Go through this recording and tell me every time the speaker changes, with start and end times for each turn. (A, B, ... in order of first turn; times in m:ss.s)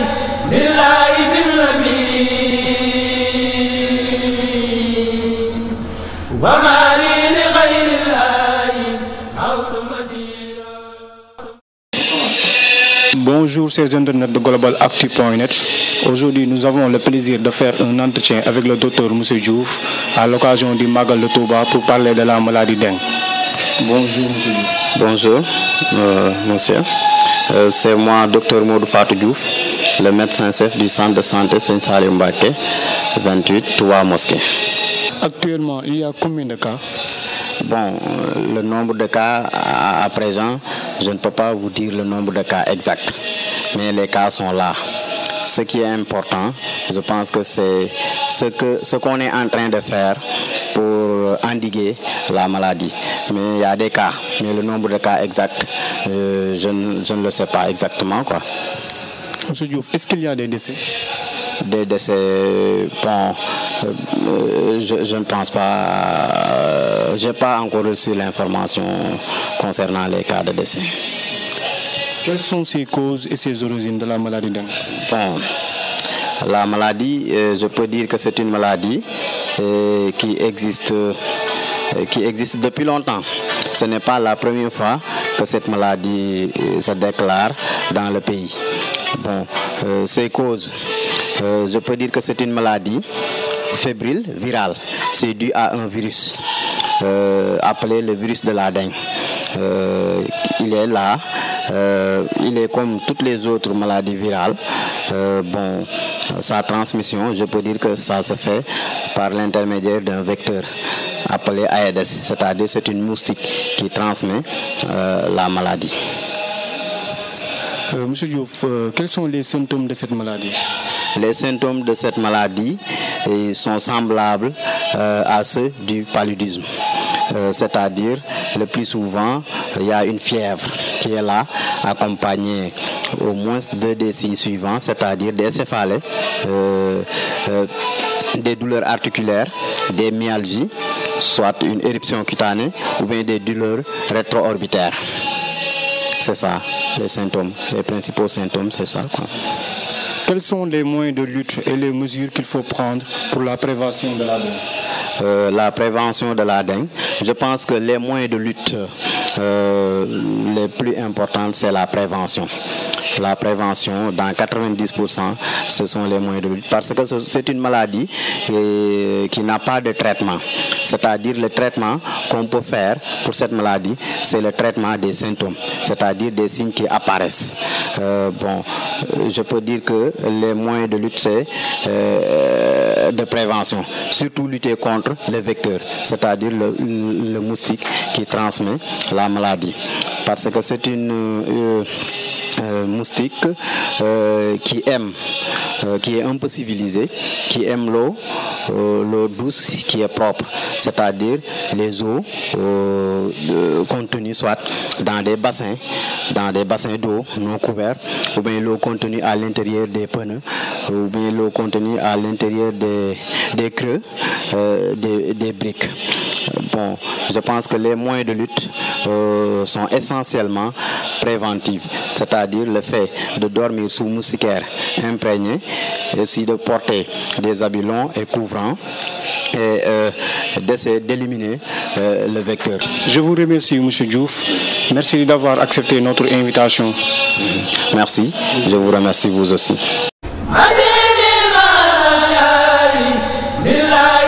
0:00.8-0:02.7 A
0:06.5-0:09.0 A
0:09.6-0:10.2 A
0:13.1-0:23.0 A
0:23.8-0:24.8 A
0:24.9-0:26.9 B
0:27.5-0:32.6 B
0:33.2-0:34.4 B
0:35.2-0:36.8 A
0:37.6-0:43.2 B
0:43.7-0:44.8 B
0:45.5-0:50.2 B
0:50.7-0:58.4 B
0:59.5-1:00.8 A
1:01.6-1:10.9 B
1:12.2-1:14.8 A
1:14.9-1:15.5 B
1:16.4-1:19.0 B
1:19.6-1:21.2 B
1:21.9-1:28.6 B
1:29.1-1:30.7 B
1:31.4-1:33.0 B
1:33.7-1:36.4 B
1:37.0-1:39.0 B
1:39.5-1:50.7 B
1:51.3-1:56.0 B
1:57.9-2:00.6 A
2:01.2-2:06.7 B
2:07.3-2:17.7 B
2:18.3-2:25.0 B
2:26.2-2:29.3 B
2:30.3-2:34.6 A
2:35.2-2:42.5 B
2:43.2-3:12.0 B
3:12.6-3:15.2 B
3:15.8-3:36.0 B
3:36.5-3:45.6 B
3:46.1-3:48.8 B
3:49.5-3:52.9 B
3:53.0-3:57.0 A
3:57.4-3:59.8 B